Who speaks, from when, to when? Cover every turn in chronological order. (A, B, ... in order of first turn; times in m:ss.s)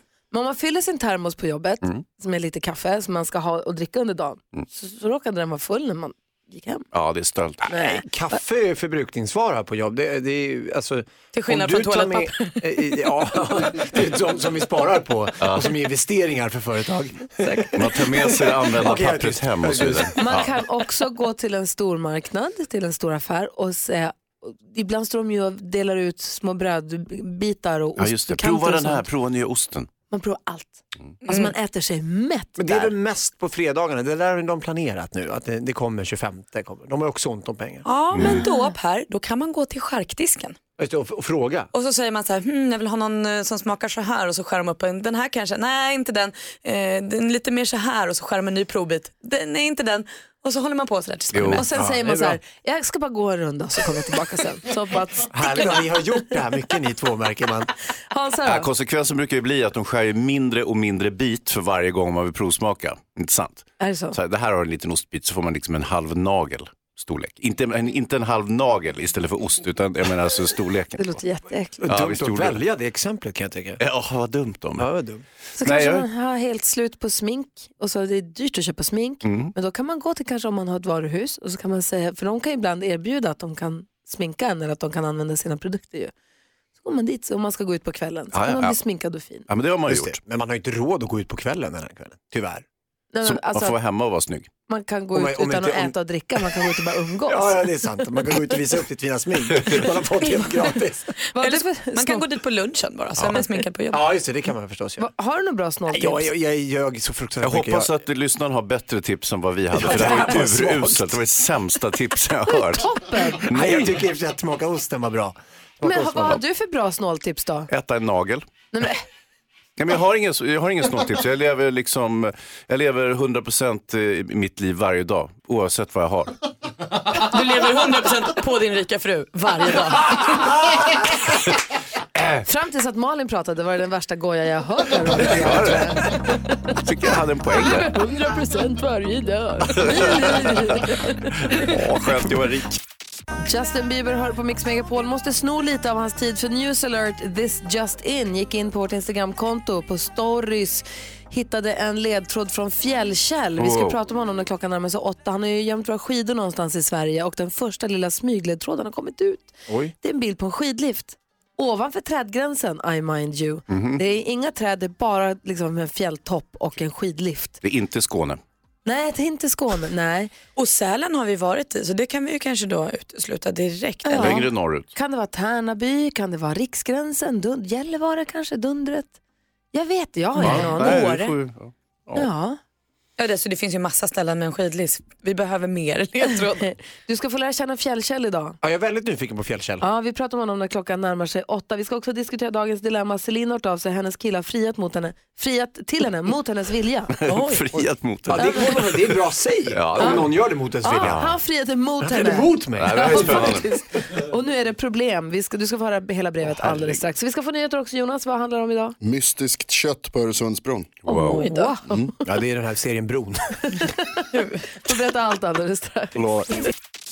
0:00.3-0:06.8 A
0:06.9-0:07.7 B
0:07.7-0:08.0 A
0:07.8-0:20.1 C
0:11.3-0:12.6 D
0:15.4-0:15.7 B
0:17.7-0:20.5 B
0:20.2-0:29.1 A
0:28.0-0:29.9 B
0:30.1-0:32.9 A
0:31.3-0:31.5 D
0:32.6-0:37.8 C
0:37.8-0:40.6 D
0:38.1-0:38.4 B
0:40.8-0:41.7 C
0:41.7-0:51.6 D
0:51.3-0:52.3 B
0:51.5-0:55.7 A
0:55.3-0:57.7 C
0:58.1-0:58.7 A
0:58.4-1:11.1 B
1:03.8-1:04.2 A
1:11.0-1:11.8 A
1:11.8-1:13.8 C
1:11.9-1:12.6 B
1:13.8-1:14.9 B
1:14.8-1:15.2 C
1:15.6-1:26.1 A
1:15.6-1:16.1 B
1:19.2-1:19.5 B
1:26.8-1:29.5 A
1:28.3-1:28.8 B
1:29.5-1:30.1 B
1:29.9-1:32.6 C
1:33.1-1:33.8 A
1:33.2-1:34.5 B
1:34.7-1:37.6 A
1:35.1-1:36.0 C
1:37.2-1:41.1 C
1:41.3-1:42.2 A
1:41.4-1:44.0 D
1:43.9-1:45.1 C
1:45.0-1:46.3 A
1:45.9-1:47.9 C
1:47.4-1:54.0 B
1:49.7-1:51.2 C
1:52.5-1:53.4 A
1:53.4-1:56.4 C
1:55.8-1:57.7 A
1:57.7-1:58.4 B
1:58.7-1:59.0 A
1:59.8-2:06.3 B
2:07.1-2:10.5 D
2:12.4-2:16.7 A
2:15.1-2:16.0 C
2:15.3-2:15.9 B
2:16.8-2:17.9 B
2:17.5-2:21.7 A
2:19.7-2:20.7 B
2:21.5-2:22.8 B
2:23.4-2:47.6 A
2:33.6-2:34.0 B
2:39.7-2:39.9 C
2:43.7-2:44.0 B
2:47.6-2:48.4 B
2:48.8-2:50.3 A
2:50.6-2:54.4 D
2:54.0-2:59.1 A
2:54.1-2:54.9 B
2:59.7-3:01.3 A
3:00.4-3:02.3 B
3:00.4-3:00.7 D
3:02.1-3:02.6 A
3:03.2-3:06.7 D
3:07.1-3:08.6 A
3:08.6-3:09.8 C
3:09.8-3:17.1 A
3:17.2-3:19.1 B
3:17.3-3:17.6 D
3:18.3-3:21.2 C
3:18.4-3:18.6 A
3:19.7-3:20.2 B
3:20.0-3:20.2 A
3:20.8-3:29.0 A
3:21.0-3:21.3 B
3:22.0-3:23.6 C
3:22.8-3:23.7 B
3:26.6-3:26.9 B
3:29.0-3:31.0 E
3:31.0-3:32.1 B
3:31.0-3:32.1 A
3:31.3-3:31.7 D
3:32.2-3:33.6 C
3:33.7-3:36.2 A
3:36.2-3:36.5 E